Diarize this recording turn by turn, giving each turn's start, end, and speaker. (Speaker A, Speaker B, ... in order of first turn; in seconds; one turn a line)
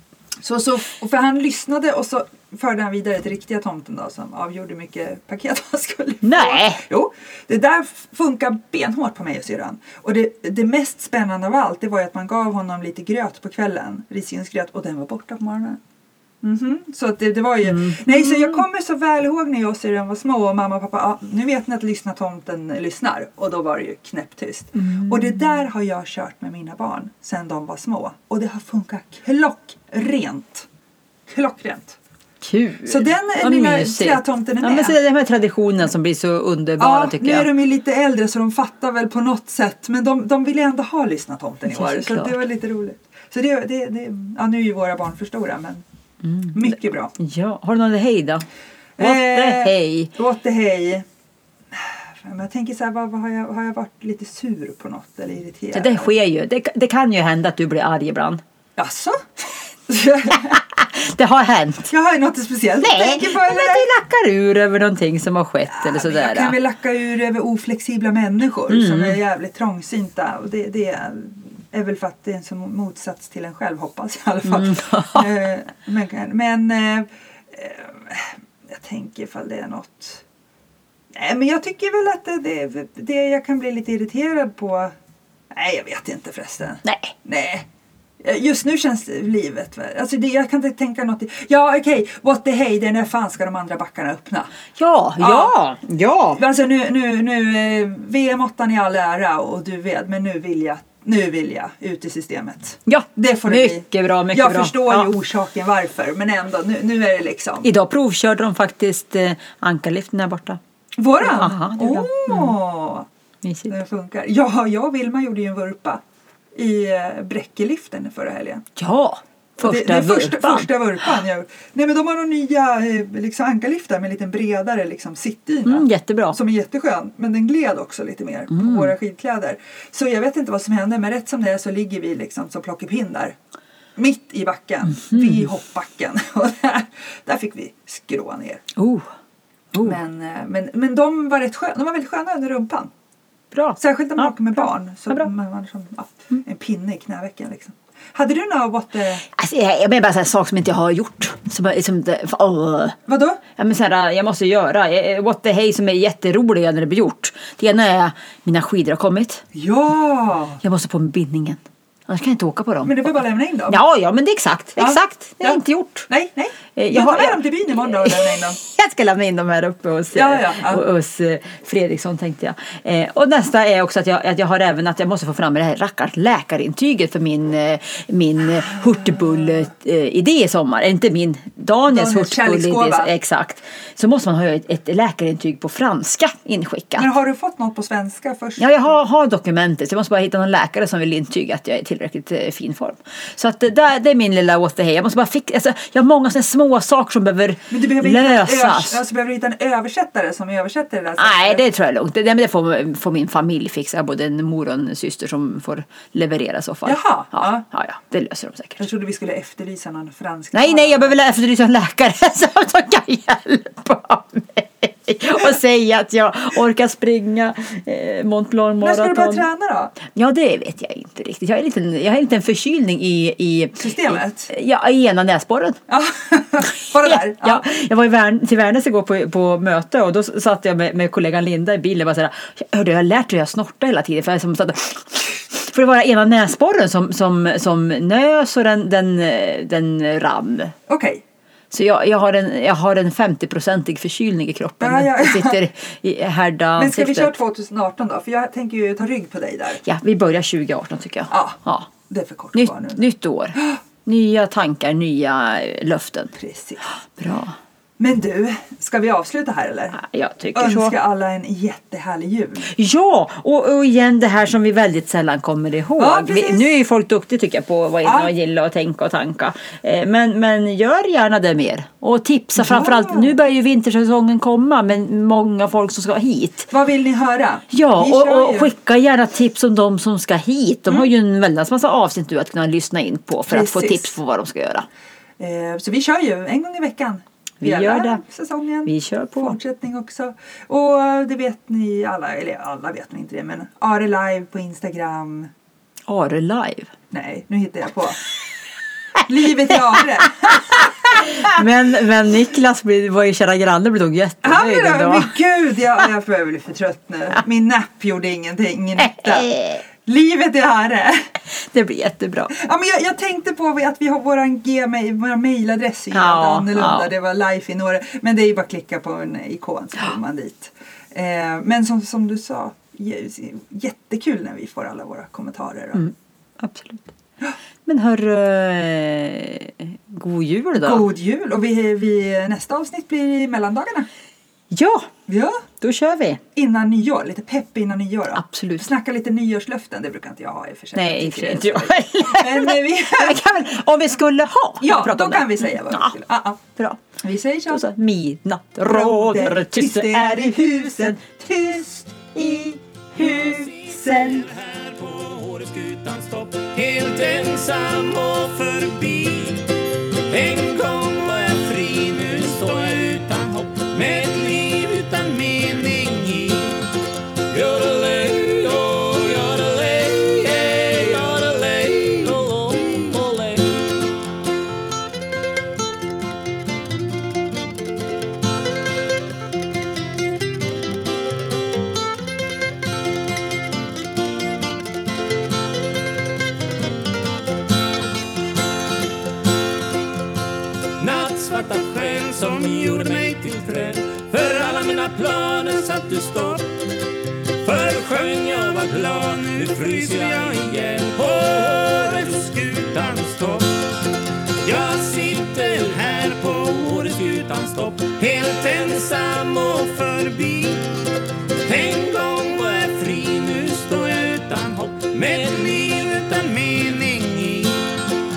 Speaker A: 0.4-15.8
Speaker B: 6.2-6.8
Speaker A: 16.4-30.7
Speaker B: 17.6-18.6
Speaker B: 24.8-25.5
Speaker A: 31.3-32.0
Speaker B: 32.4-37.5
Speaker A: 32.9-35.0
Speaker A: 36.8-45.8
Speaker B: 41.7-42.4
Speaker B: 46.2-48.4
Speaker A: 46.5-47.1
Speaker A: 49.0-51.0
Speaker B: 49.0-50.1
Speaker A: 51.7-56.1
Speaker B: 55.7-58.4
Speaker A: 58.8-59.2
Speaker A: 59.9-60.6
Speaker B: 60.3-61.9
Speaker A: 61.9-63.9
Speaker B: 62.8-66.5
Speaker A: 65.6-80.2
Speaker B: 68.7-69.2
Speaker B: 74.4-75.3
Speaker A: 81.1-84.9
Speaker A: 85.5-87.7
Speaker B: 86.8-87.1
Speaker A: 88.2-94.5
Speaker B: 94.8-96.4
Speaker A: 95.2-95.5
Speaker A: 96.3-107.7
Speaker B: 102.9-105.1
Speaker B: 107.6-110.6
Speaker A: 111.0-113.1
Speaker B: 111.2-112.6
Speaker B: 113.4-113.7
Speaker A: 113.7-116.0
Speaker A: 116.5-118.6
Speaker B: 118.8-120.7
Speaker A: 119.6-133.3
Speaker B: 125.6-126.4
Speaker B: 128.5-128.9
Speaker A: 133.9-138.6
Speaker B: 135.0-135.3
Speaker B: 138.8-139.1
Speaker B: 139.7-140.0
Speaker A: 139.8-142.9
Speaker B: 143.5-144.3
Speaker A: 143.8-149.2
Speaker B: 149.3-153.0
Speaker A: 153.1-153.4
Speaker B: 153.6-159.4
Speaker A: 159.5-160.6
Speaker B: 160.6-163.2
Speaker A: 162.8-163.8
Speaker B: 163.7-166.1
Speaker A: 164.8-168.6
Speaker B: 166.7-187.1
Speaker A: 170.1-170.8
Speaker A: 181.9-183.1
Speaker A: 187.0-188.9
Speaker B: 188.6-199.0
Speaker A: 197.7-201.6
Speaker B: 201.2-208.8
Speaker A: 206.8-207.6
Speaker A: 208.8-211.2
Speaker B: 210.5-219.5
Speaker A: 218.8-219.9
Speaker B: 220.0-225.8
Speaker A: 223.8-224.5
Speaker A: 225.9-227.6
Speaker B: 227.0-240.7
Speaker A: 240.9-241.2
Speaker B: 241.7-247.3
Speaker A: 244.8-245.6
Speaker A: 246.8-249.8
Speaker B: 249.8-251.9
Speaker A: 251.3-253.8
Speaker B: 252.5-256.3
Speaker A: 256.3-256.8
Speaker B: 257.0-257.5
Speaker A: 258.0-260.0
Speaker B: 259.9-260.9
Speaker A: 260.5-262.7
Speaker B: 262.6-276.7
Speaker A: 266.0-266.7
Speaker A: 268.0-268.3
Speaker A: 272.6-273.4
Speaker A: 276.7-278.7
Speaker B: 277.7-284.9
Speaker A: 283.5-284.2
Speaker A: 285.4-295.5
Speaker B: 287.6-288.2
Speaker B: 288.9-289.6
Speaker B: 296.1-296.9
Speaker A: 297.1-298.2
Speaker A: 299.2-301.6
Speaker B: 301.1-305.3
Speaker A: 304.4-311.2
Speaker B: 309.0-309.8
Speaker B: 311.5-312.5
Speaker A: 312.5-326.1
Speaker B: 316.1-317.1
Speaker B: 325.9-327.1
Speaker B: 327.9-331.1
Speaker A: 330.8-334.1
Speaker B: 334.7-335.1
Speaker A: 335.3-335.6
Speaker B: 335.8-336.4
Speaker A: 336.5-343.4
Speaker B: 338.3-338.9
Speaker B: 340.9-346.1
Speaker A: 344.8-346.6
Speaker B: 346.8-347.0
Speaker A: 347.2-347.8
Speaker B: 347.7-351.0
Speaker A: 348.9-354.5
Speaker C: 353.5-359.7
Speaker C: 360.3-366.9
Speaker C: 367.5-374.1
Speaker C: 391.0-396.8
Speaker C: 397.6-404.0
Speaker C: 404.6-411.1
Speaker C: 411.6-418.0